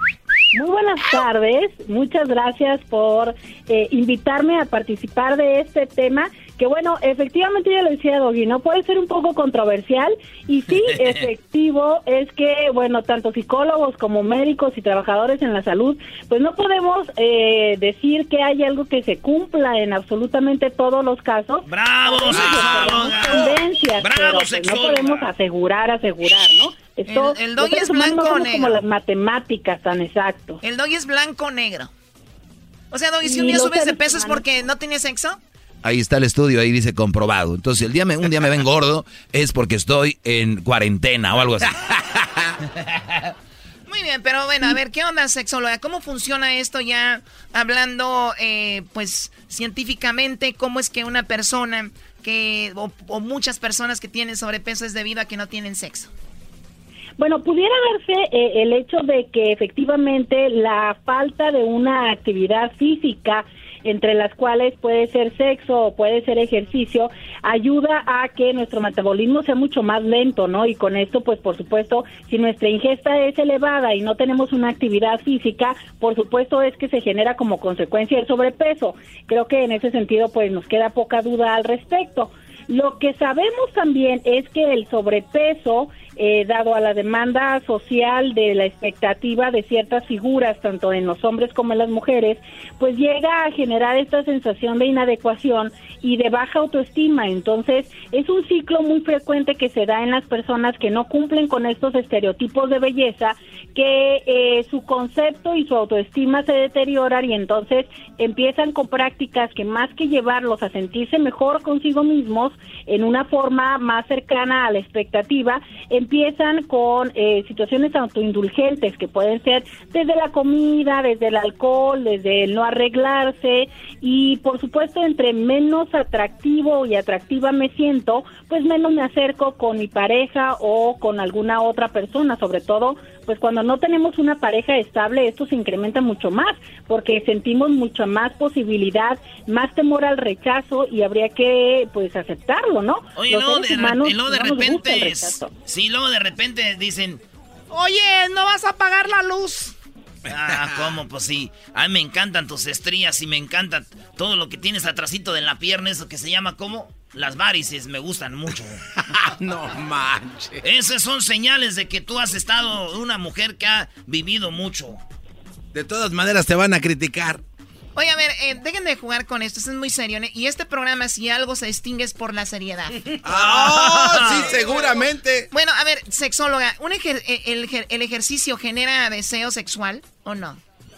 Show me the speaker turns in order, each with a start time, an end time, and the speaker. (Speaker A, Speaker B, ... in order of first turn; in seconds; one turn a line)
Speaker A: 0.5-30.6
Speaker B: 21.7-25.3
Speaker C: 22.3-22.8
Speaker D: 27.1-28.8
Speaker D: 30.6-31.9
Speaker D: 32.9-35.4
Speaker A: 33.2-34.4
Speaker E: 35.8-41.7
Speaker D: 43.9-56.1
Speaker A: 57.2-145.5
Speaker B: 143.2-147.2
Speaker D: 147.8-148.2
Speaker B: 150.3-158.8
Speaker C: 150.4-151.0
Speaker C: 159.1-160.6
Speaker B: 160.6-165.0
Speaker C: 165.7-167.4
Speaker D: 167.9-172.9
Speaker C: 173.2-175.5
Speaker B: 173.3-174.6
Speaker D: 175.5-180.6